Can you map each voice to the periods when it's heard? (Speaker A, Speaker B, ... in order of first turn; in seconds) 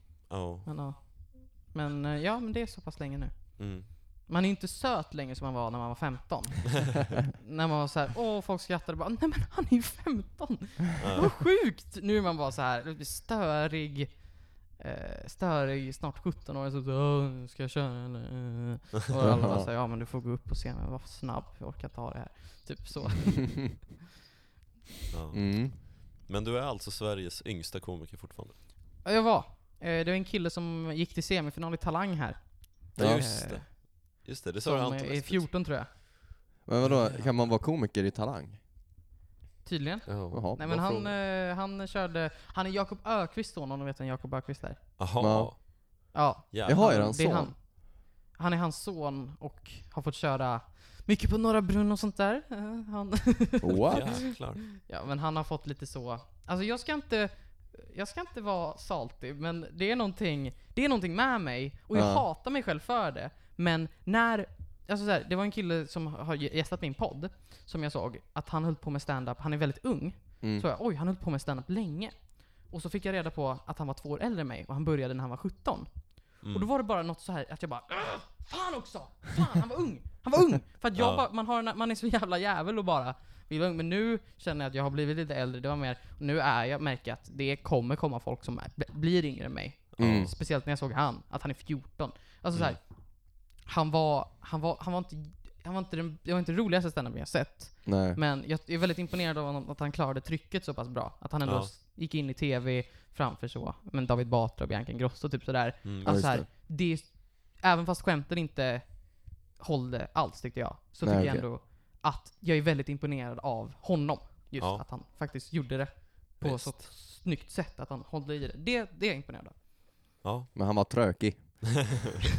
Speaker A: 0.3-0.7, 3.6-3.9, 11.0-11.4, 25.1-28.6, 33.0-35.5, 36.8-37.2, 40.1-40.4, 45.0-45.8, 46.5-46.9, 53.9-54.6, 76.4-76.7, 81.0-81.2, 90.0-90.3, 92.5-92.8, 101.4-101.7, 105.8-106.2, 114.6-114.8, 116.4-116.8, 120.2-120.5
Speaker B: 0.7-23.9, 29.0-33.9, 34.6-35.9, 39.6-44.8, 46.1-92.9, 93.6-119.6
Speaker C: 19.2-19.7, 25.3-25.8, 33.0-33.3, 36.7-38.6, 40.3-41.1, 45.2-45.5, 46.6-47.5, 53.6-54.2, 61.9-62.2, 90.0-90.3, 97.8-98.2, 106.0-106.5, 111.0-111.5, 120.5-121.9